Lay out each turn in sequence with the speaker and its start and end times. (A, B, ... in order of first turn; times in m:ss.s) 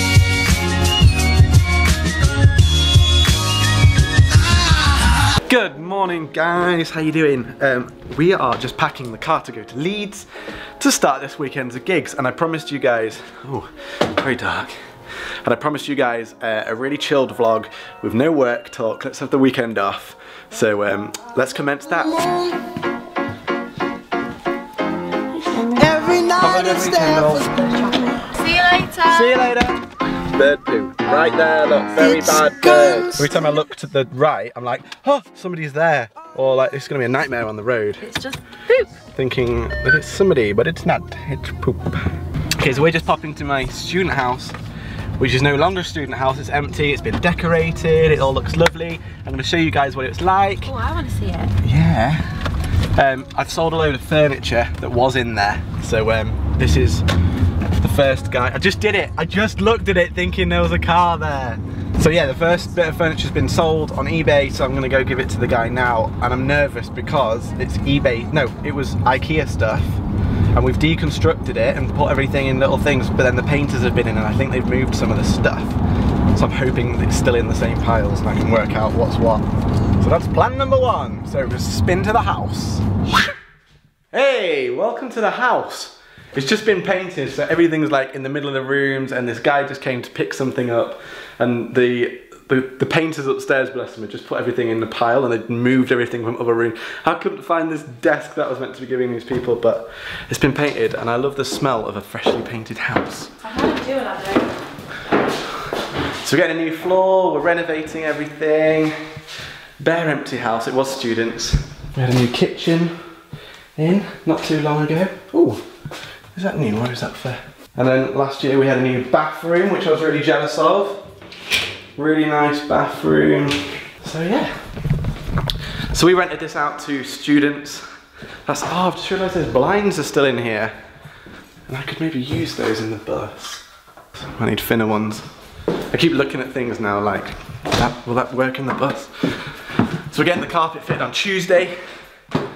0:05.3-0:10.3 A
0:10.8-0:14.8 A
0:15.4-0:22.3 A
0:22.0-0:22.7 B
0:25.5-0:28.3 B
0:25.6-0:26.2 C
0:26.4-0:27.5 A
0:27.7-0:29.3 C
0:29.0-0:29.8 A
0:30.3-0:38.1 A
0:32.0-0:33.4 B
0:38.1-0:38.9 C
0:39.0-0:42.0 A
0:42.6-0:44.6 A
0:45.2-0:50.7 A
0:50.6-0:51.6 C
0:51.6-0:52.3 A
0:53.0-0:57.0 A
0:57.8-1:10.0 A
1:10.5-1:15.8 A
1:16.3-1:19.4 A
1:20.0-1:22.9 A
1:24.1-1:43.3 A
1:43.4-1:44.5 C
1:46.2-1:49.1 A
1:49.8-1:53.0 A
1:53.8-1:55.6 A
1:56.4-2:01.1 A
2:02.0-2:04.6 A
2:05.9-2:07.8 A
2:08.5-2:10.8 A
2:11.7-2:13.6 A
2:14.2-2:15.3 A
2:15.9-2:21.8 A